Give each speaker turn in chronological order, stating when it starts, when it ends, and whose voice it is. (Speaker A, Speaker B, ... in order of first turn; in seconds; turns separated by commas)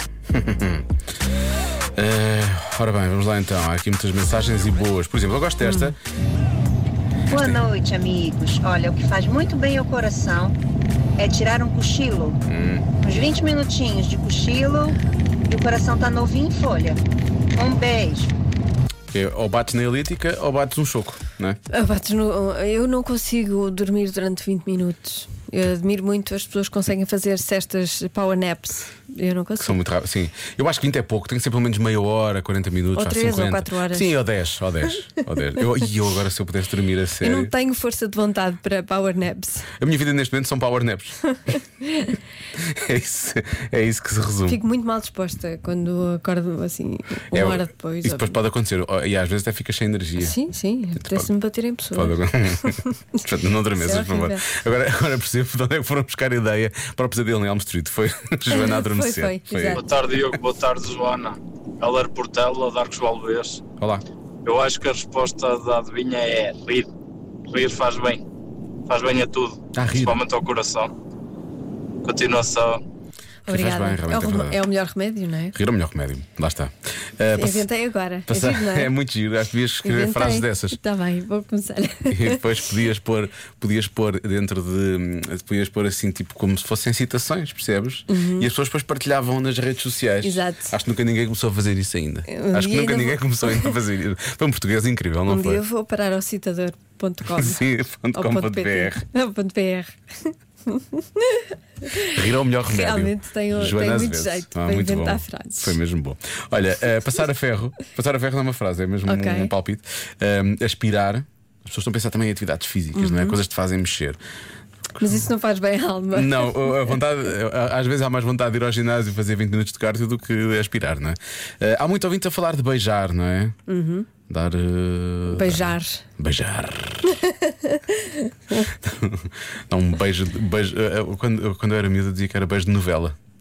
Speaker A: 0.3-0.8, Speaker A: 1.9-6.0, Speaker B: 5.6-5.9, Speaker C: 7.3-10.6, Speaker C: 11.2-12.4, Speaker A: 12.5-12.8, Speaker C: 13.0-15.0, Speaker C: 15.5-17.0, Speaker C: 17.5-18.3, Speaker A: 19.1-21.6, Speaker B: 21.7-29.8, Speaker A: 29.6-37.5, Speaker B: 33.0-34.2, Speaker B: 37.2-39.7, Speaker A: 39.8-41.3, Speaker A: 42.5-44.6, Speaker B: 44.5-48.4, Speaker A: 47.3-50.4, Speaker B: 50.2-54.4, Speaker A: 51.0-51.3, Speaker A: 51.9-59.8, Speaker B: 58.5-59.8, Speaker D: 59.7-63.6, Speaker D: 64.4-66.9, Speaker D: 67.5-68.2, Speaker D: 68.9-70.9, Speaker A: 69.7-70.2, Speaker D: 72.0-72.8, Speaker B: 73.5-75.5, Speaker A: 73.5-74.6, Speaker A: 75.5-77.7, Speaker B: 77.3-78.9, Speaker A: 78.3-80.8, Speaker B: 79.8-82.4, Speaker A: 82.1-95.6, Speaker B: 88.1-88.5, Speaker B: 90.2-90.7, Speaker B: 92.3-93.7, Speaker B: 95.3-97.6, Speaker A: 97.3-99.0, Speaker B: 98.1-105.8, Speaker A: 102.1-114.2, Speaker B: 109.1-109.5, Speaker B: 112.9-113.4, Speaker B: 115.0-116.9, Speaker A: 116.1-123.5, Speaker B: 123.7-124.1, Speaker A: 124.3-127.0, Speaker B: 125.3-126.0, Speaker B: 127.1-128.7, Speaker A: 128.6-133.1